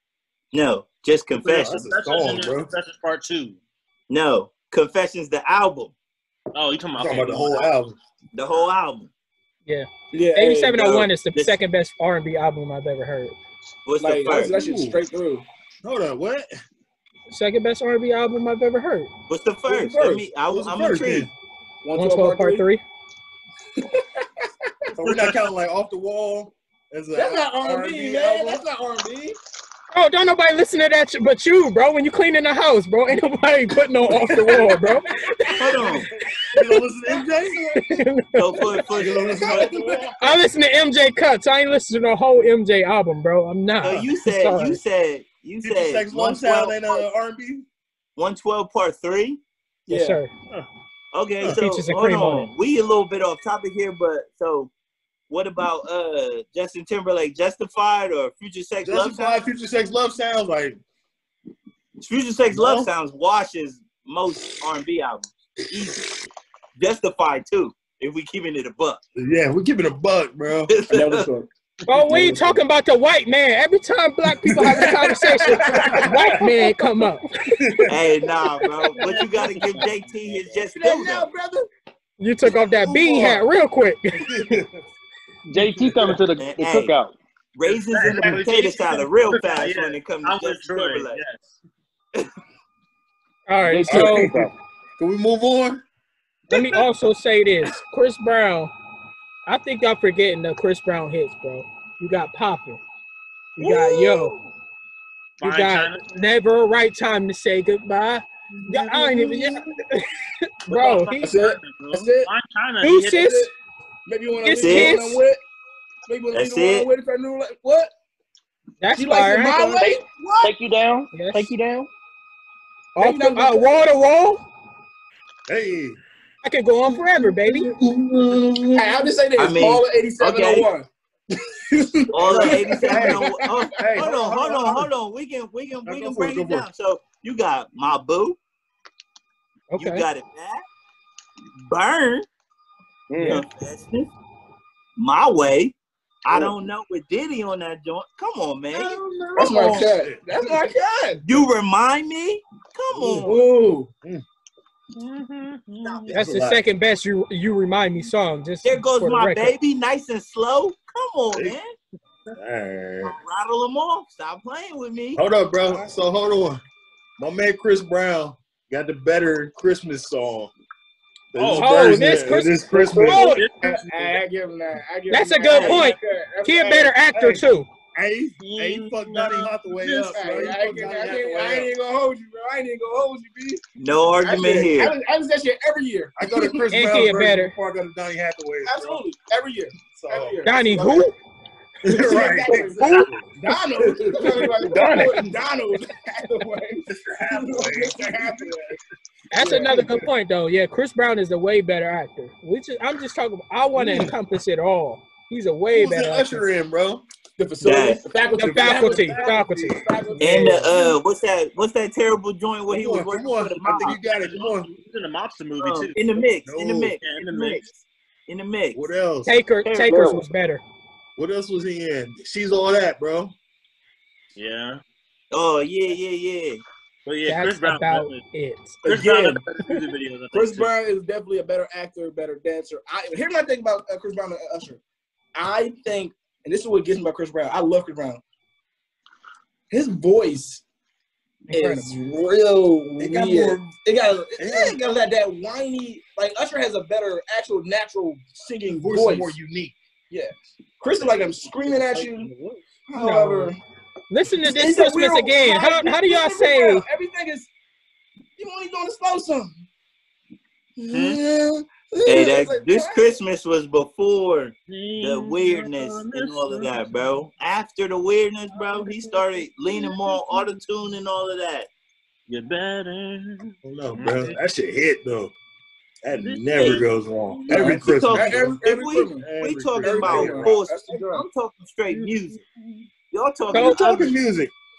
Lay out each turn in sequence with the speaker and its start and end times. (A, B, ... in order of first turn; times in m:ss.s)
0:00.5-0:01.8 A
0:01.4-0:02.7 B
0:01.4-0:03.6 C
0:04.1-0:05.9 A
0:06.5-0:07.7 C
0:07.0-0:08.0 B
0:08.3-0:09.1 A
0:09.6-0:13.4 D
0:10.1-0:11.1 E
0:13.8-0:14.5 A
0:14.0-0:15.4 E
0:14.3-0:15.0 B
0:15.8-0:16.5 B
0:17.3-0:19.1 D
0:19.3-0:21.3 A
0:19.7-0:20.3 E
0:20.5-0:21.3 B
0:21.8-0:22.6 E
0:21.9-0:22.8 D
0:23.8-0:24.9 E
0:25.0-0:28.6 B
0:25.0-0:25.4 C
0:27.1-0:29.4 E
0:29.9-0:35.9 D
0:34.5-0:34.9 E
0:35.6-0:36.1 A
0:36.5-0:38.0 B
0:37.7-0:38.8 D
0:38.4-0:39.9 A
0:38.9-0:40.2 B
0:39.3-0:40.1 E
0:40.2-0:44.8 D
0:43.8-0:47.0 A
0:45.6-0:47.6 B
0:48.2-0:49.4 A
0:49.8-0:50.2 E
0:49.9-0:50.3 D
0:51.1-0:54.7 A
0:51.5-0:52.5 D
0:55.3-0:59.4 A
0:58.8-1:00.8 B
1:02.0-1:06.2 A
1:02.5-1:02.9 B
1:06.8-1:09.0 A
1:09.2-1:10.7 B
1:10.7-1:11.3 A
1:10.9-1:11.5 E
1:11.9-1:17.3 D
1:12.1-1:12.4 E
1:14.4-1:16.9 E
1:15.5-1:16.4 B
1:17.6-1:18.1 B
1:17.9-1:21.3 A
1:18.9-1:20.6 C
1:20.7-1:21.7 E
1:22.2-1:24.6 D
1:22.6-1:23.4 E
1:24.2-1:24.8 B
1:25.5-1:27.1 F
1:25.6-1:26.1 B
1:26.3-1:27.0 A
1:27.5-1:31.2 A
1:27.9-1:31.6 C
1:33.5-1:34.4 D
1:33.6-1:34.5 F
1:33.9-1:35.8 B
1:36.5-1:38.7 D
1:39.4-1:42.8 D
1:43.6-1:44.3 D
1:45.4-1:46.1 C
1:45.4-1:51.3 D
1:48.6-1:49.7 B
1:50.7-1:53.4 C
1:51.2-1:52.3 E
1:52.8-1:53.5 D
1:53.1-1:53.5 E
1:54.0-1:55.4 E
1:54.4-1:55.2 D
1:54.6-1:55.0 A
1:56.1-1:57.9 E
1:56.3-1:56.9 A
1:58.8-1:59.9 D
1:58.9-2:00.5 E
1:59.9-2:01.9 F
2:01.1-2:01.5 D
2:03.0-2:04.4 D
2:03.0-2:03.9 E
2:05.5-2:06.0 B
2:06.4-2:07.7 D
2:07.5-2:09.0 B
2:08.7-2:10.9 E
2:09.4-2:10.7 A
2:11.6-2:14.0 E
2:12.1-2:18.4 A
2:12.2-2:14.9 B
2:15.8-2:16.7 B
2:19.7-2:20.1 D
2:19.8-2:20.6 A
2:21.6-2:22.2 A
2:23.1-2:23.4 F
2:23.2-2:24.1 A
2:25.0-2:29.8 A
2:28.7-2:30.5 B
2:29.4-2:31.3 E
2:31.2-2:33.4 A
2:32.9-2:33.3 B
2:33.2-2:33.9 E
2:34.9-2:36.1 C
2:35.8-2:36.1 A
2:36.1-2:39.5 D
2:36.1-2:36.6 B
2:38.6-2:41.7 A
2:42.3-2:43.2 B
2:43.0-2:45.2 A
2:45.1-2:46.6 B
2:47.2-2:50.5 B
2:51.3-2:53.5 B
2:51.4-2:52.1 C
2:51.6-2:53.5 D
2:52.7-2:56.9 E
2:53.1-2:54.2 C
2:55.1-2:57.7 D
2:55.5-2:55.8 A
2:57.1-3:01.7 B
2:58.4-3:00.4 C
3:00.1-3:03.6 E
3:03.8-3:04.9 A
3:04.2-3:06.6 E
3:06.2-3:09.0 B
3:06.7-3:07.5 D
3:08.6-3:11.1 E
3:09.9-3:10.4 B
3:10.4-3:11.1 D
3:11.8-3:15.4 B
3:11.8-3:18.8 E
3:12.5-3:13.1 D
3:16.9-3:18.8 B
3:19.3-3:26.4 D
3:19.4-3:20.1 B
3:19.4-3:19.7 E
3:23.8-3:24.1 B
3:25.7-3:27.0 B
3:27.4-3:30.9 E
3:27.6-3:28.0 A
3:28.3-3:30.6 D
3:28.4-3:30.4 B
3:30.2-3:34.0 A
3:32.7-3:34.7 B
3:33.8-3:36.0 C
3:35.6-3:38.8 A
3:36.4-3:37.0 B
3:37.0-3:37.6 C
3:38.7-3:39.4 B
3:39.2-3:40.6 D
3:39.6-3:40.2 F
3:41.2-3:43.3 B
3:44.4-3:44.8 C
3:45.3-3:46.6 A
3:47.0-3:48.2 C
3:47.2-3:48.8 D
3:48.8-3:49.4 E
3:48.8-3:50.7 C
3:50.3-3:54.8 E
3:55.3-3:58.2 E
3:59.7-4:00.6 E
4:01.5-4:01.9 D
4:01.5-4:09.3 E
4:03.0-4:03.7 B
4:04.4-4:04.8 B
4:08.7-4:09.8 B
4:10.1-4:12.3 E
4:11.7-4:12.5 B
4:12.9-4:13.6 E
4:13.0-4:13.5 D
4:14.1-4:16.9 D
4:14.4-4:17.5 E
4:18.4-4:19.6 E
4:20.8-4:23.2 E
4:20.9-4:21.2 C
4:22.0-4:31.7 A
4:24.7-4:27.0 C
4:28.8-4:30.1 C
4:32.3-4:34.4 C
4:33.6-4:35.3 B
4:36.0-4:38.6 B
4:36.2-4:37.7 C
4:37.5-4:42.4 A
4:37.5-4:41.2 E
4:39.2-4:40.6 B
4:43.1-4:44.1 A
4:43.5-4:43.8 D
4:43.5-4:44.5 B